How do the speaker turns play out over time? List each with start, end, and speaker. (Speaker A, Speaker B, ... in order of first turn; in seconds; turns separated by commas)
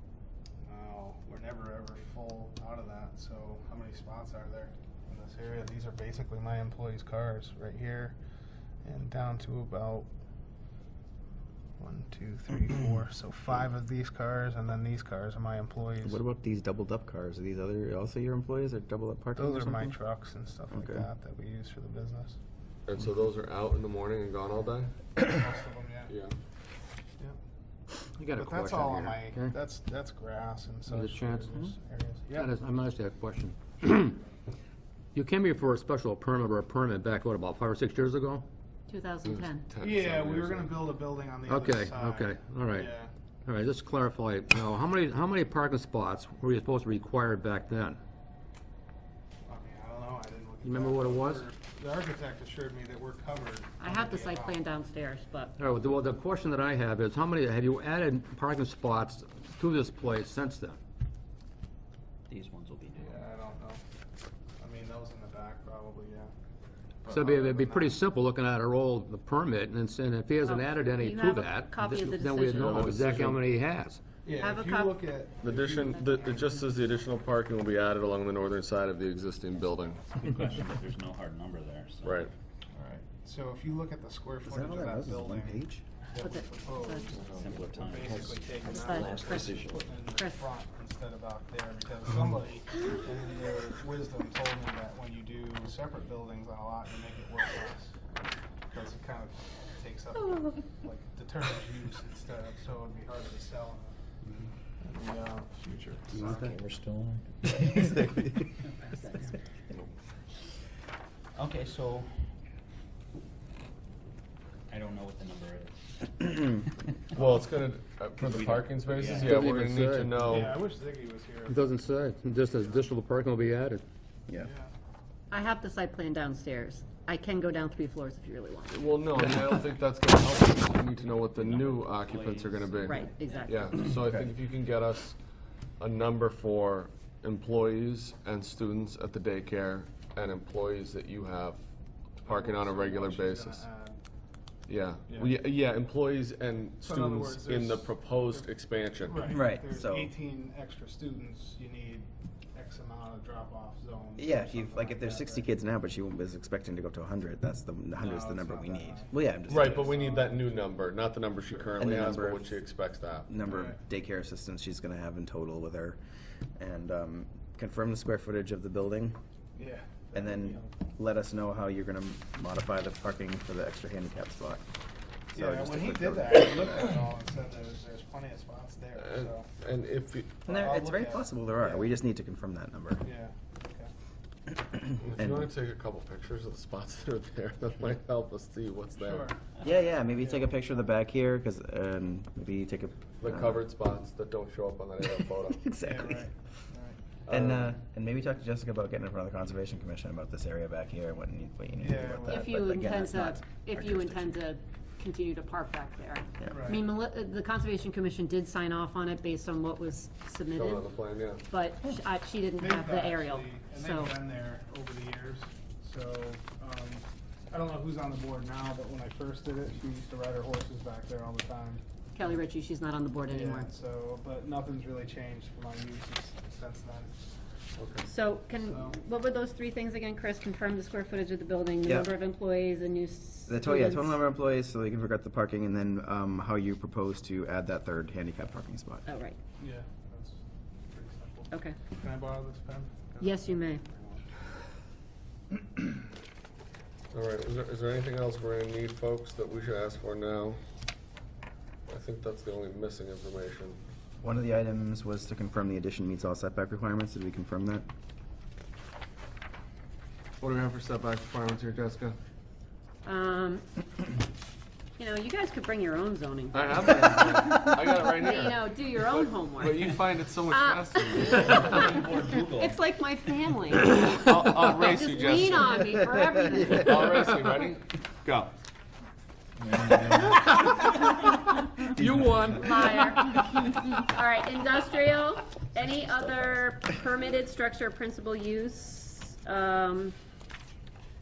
Speaker A: 0.6-8.2, Speaker A: 8.8-10.1, Speaker A: 11.8-16.2, Speaker B: 16.0-20.0, Speaker A: 19.4-22.4, Speaker B: 20.7-21.1, Speaker C: 22.9-24.9, Speaker A: 25.2-26.1, Speaker C: 26.1-26.3, Speaker D: 28.2-29.5, Speaker A: 28.3-32.5, Speaker D: 30.9-31.7, Speaker D: 32.3-34.2, Speaker D: 35.1-38.5, Speaker E: 38.9-39.6, Speaker C: 39.2-40.8, Speaker A: 39.8-43.1, Speaker D: 41.5-42.9, Speaker D: 43.5-48.0, Speaker A: 49.5-54.6, Speaker D: 50.6-51.4, Speaker E: 53.8-55.5, Speaker D: 55.6-60.8, Speaker F: 62.3-63.2, Speaker A: 63.0-63.8, Speaker A: 64.6-66.3, Speaker A: 67.0-68.0, Speaker D: 67.1-74.0, Speaker E: 70.4-72.9, Speaker C: 72.5-73.4, Speaker A: 74.2-76.0, Speaker E: 74.3-75.0, Speaker C: 75.4-80.0, Speaker E: 75.7-76.6, Speaker F: 80.2-82.3, Speaker C: 82.0-82.3, Speaker A: 82.7-87.2, Speaker B: 84.4-85.8, Speaker E: 86.2-87.2, Speaker F: 87.1-89.8, Speaker A: 87.8-97.9, Speaker E: 88.6-90.4, Speaker A: 98.7-104.0, Speaker A: 104.8-106.4, Speaker F: 106.1-108.0, Speaker B: 107.5-108.5, Speaker F: 108.6-109.3, Speaker F: 111.3-112.3, Speaker F: 114.7-117.4, Speaker C: 117.1-120.6, Speaker F: 118.2-119.5, Speaker D: 119.2-120.5, Speaker A: 120.2-121.7, Speaker D: 121.5-123.8, Speaker A: 122.4-122.9, Speaker A: 124.3-124.7, Speaker E: 125.3-129.0, Speaker C: 128.7-135.2, Speaker F: 131.2-133.7, Speaker E: 132.8-133.8, Speaker B: 133.9-134.2, Speaker C: 135.8-141.6, Speaker C: 142.2-143.7, Speaker A: 142.2-144.0, Speaker C: 144.7-149.4, Speaker A: 145.1-145.4, Speaker A: 146.8-148.5, Speaker A: 149.0-155.5, Speaker B: 149.3-150.1, Speaker B: 154.2-159.9, Speaker A: 158.0-160.6, Speaker C: 159.5-163.3, Speaker B: 161.8-162.6, Speaker B: 163.3-166.0, Speaker A: 163.5-163.8, Speaker B: 166.6-169.2, Speaker A: 169.6-170.7, Speaker B: 170.1-174.7, Speaker A: 175.3-179.5, Speaker B: 175.3-177.0, Speaker C: 179.0-180.5, Speaker B: 180.5-183.1, Speaker A: 180.5-181.9, Speaker A: 183.0-183.9, Speaker B: 184.7-185.5, Speaker C: 185.0-189.3, Speaker A: 189.0-190.9, Speaker B: 189.6-193.6, Speaker C: 193.2-195.6, Speaker B: 195.1-196.3, Speaker A: 195.8-197.0, Speaker C: 197.3-197.7, Speaker B: 197.3-204.4, Speaker A: 201.8-202.5, Speaker E: 202.3-210.9, Speaker A: 206.5-206.8, Speaker C: 210.5-211.4, Speaker E: 211.5-214.2, Speaker A: 212.6-221.8, Speaker E: 222.2-223.7, Speaker A: 223.3-227.1, Speaker C: 227.8-228.1, Speaker E: 228.1-234.2, Speaker A: 228.7-229.0, Speaker B: 231.8-232.2, Speaker B: 233.5-239.1, Speaker E: 239.1-239.4, Speaker A: 239.6-244.2, Speaker E: 241.5-241.8, Speaker E: 243.2-243.8, Speaker C: 247.1-250.6, Speaker C: 251.9-253.8, Speaker B: 254.2-257.9, Speaker C: 260.4-262.2, Speaker E: 263.0-263.8, Speaker E: 265.0-277.3, Speaker C: 266.5-271.9, Speaker F: 271.3-272.8, Speaker C: 273.9-276.0, Speaker C: 276.5-278.5, Speaker F: 279.6-280.9, Speaker B: 281.9-282.7, Speaker D: 282.1-282.9, Speaker E: 282.4-290.1